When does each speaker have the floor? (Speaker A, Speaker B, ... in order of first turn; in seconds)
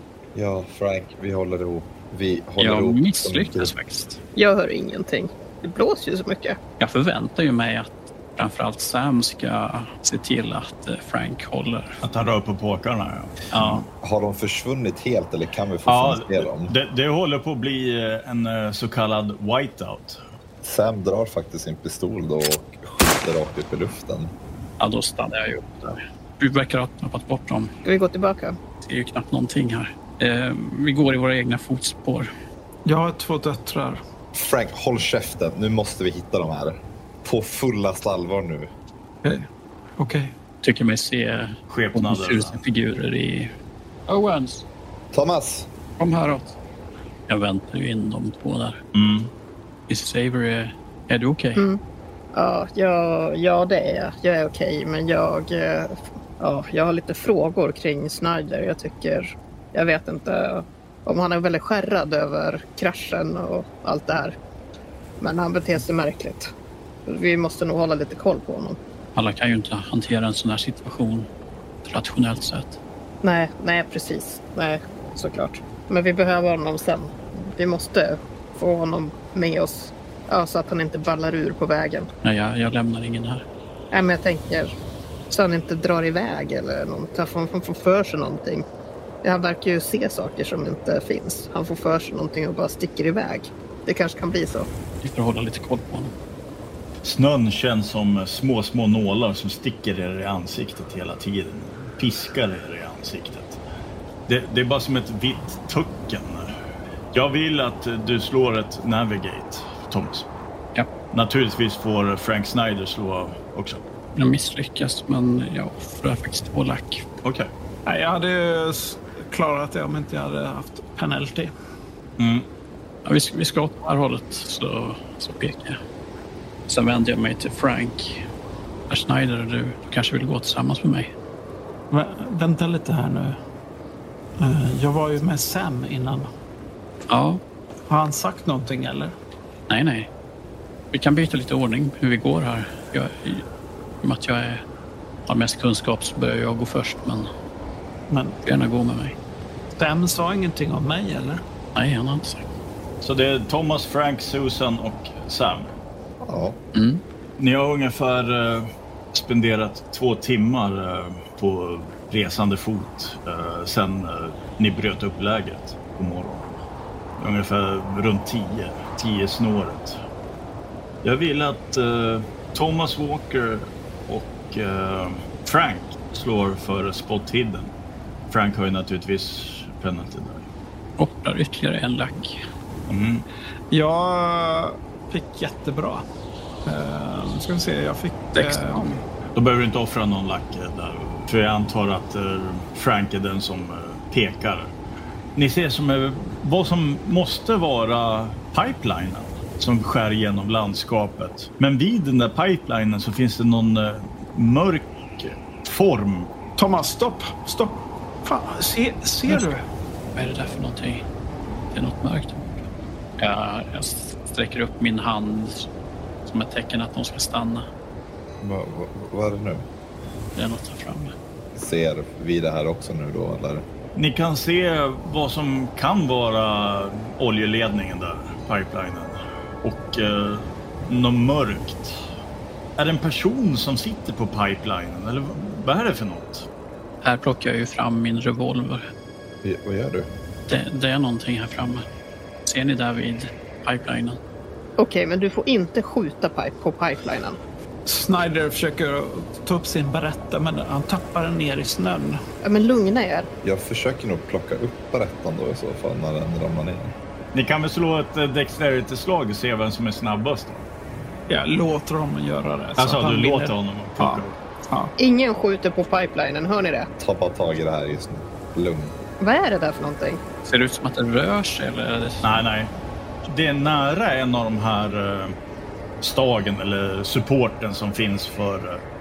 Speaker A: 0.3-3.7, 14.0-16.7, 20.6-24.3, 34.3-38.7, 45.1-45.7, 156.2-156.6, 218.4-219.7, 221.5-223.7, 239.4-240.1, 253.4-256.9, 267.0-268.9
Speaker B: 2.6-4.2, 6.8-12.0, 13.5-13.8, 24.8-27.7, 28.8-32.3, 40.6-43.5, 44.1-44.6, 46.0-46.5, 47.3-48.8, 49.9-51.7, 69.1-71.3, 71.8-72.8, 82.2-83.4, 95.0-96.1, 114.2-117.0, 123.0-125.8, 126.7-128.2, 128.9-131.1, 137.1-137.4, 139.7-140.1, 140.9-143.4, 144.0-144.6, 145.3-147.3, 148.4-149.2, 151.7-152.5, 156.7-157.0, 181.0-182.4, 188.3-189.0, 210.1-211.1, 211.7-212.6, 213.2-215.7, 216.2-217.7, 220.3-221.1, 237.0-238.9, 240.5-241.8, 242.4-244.2, 270.4-272.4
Speaker C: 4.3-6.6, 27.8-28.6, 52.3-64.3, 65.2-66.5, 67.0-68.8, 73.2-82.1, 83.9-84.7, 85.3-88.6, 89.2-94.7, 244.8-247.4, 252.4-253.3, 265.0-266.9, 269.2-270.2
Speaker D: 12.0-13.8, 15.9-20.2, 41.7-42.6, 48.9-49.3, 97.0-103.6, 104.3-106.5, 107.1-110.3, 111.1-113.8, 117.2-117.5, 122.2-122.5, 153.0-155.7, 157.4-166.6, 167.2-170.0, 171.0-177.7, 178.3-180.4, 182.9-183.2, 189.3-194.7, 195.3-206.3, 223.9-232.0, 232.8-236.5, 257.3-260.7, 262.8-264.4, 272.2-272.7, 273.2-275.3, 276.0-278.8
Speaker E: 32.8-34.0, 40.0-40.3, 117.8-121.5, 131.9-133.4, 134.4-136.3, 137.9-139.1, 148.1-148.4, 149.8-151.4, 183.7-186.0, 186.7-189.0, 206.6-209.6, 247.8-252.2, 261.3-264.9